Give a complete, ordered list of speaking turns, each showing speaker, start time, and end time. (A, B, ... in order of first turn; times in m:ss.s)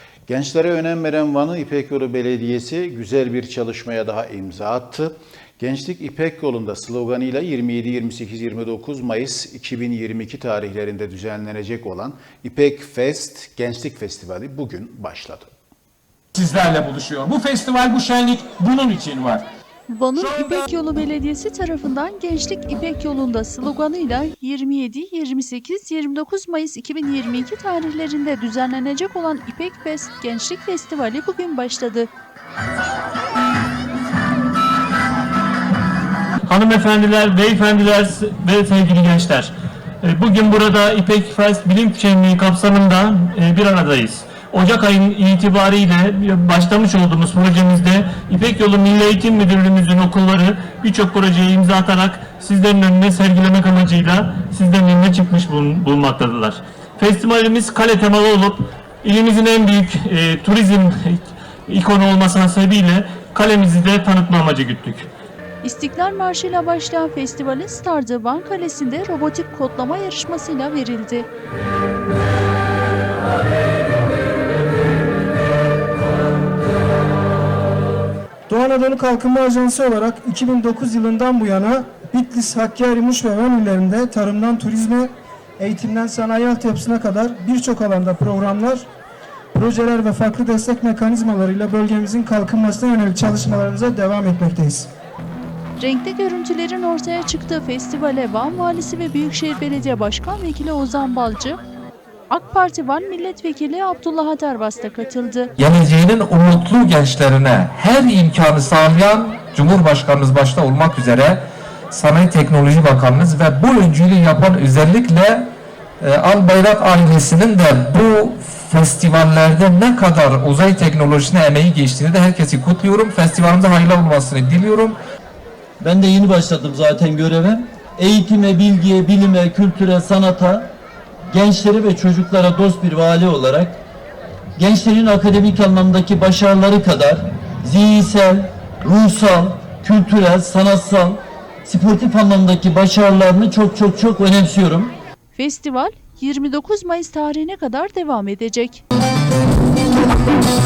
0:00.3-0:15.5 A
0:16.3-0:19.4 B
0:19.9-0:32.1 C
0:36.5-1:05.1 D
1:05.6-1:11.3 C
1:18.6-1:25.0 E
1:25.7-1:28.8 E
1:29.6-1:34.8 E
1:35.8-1:41.6 C
1:42.3-1:45.5 C
1:45.6-2:05.0 F
2:05.8-2:10.7 G
2:11.3-2:13.8 G
2:14.6-2:24.9 G
2:25.3-2:28.8 C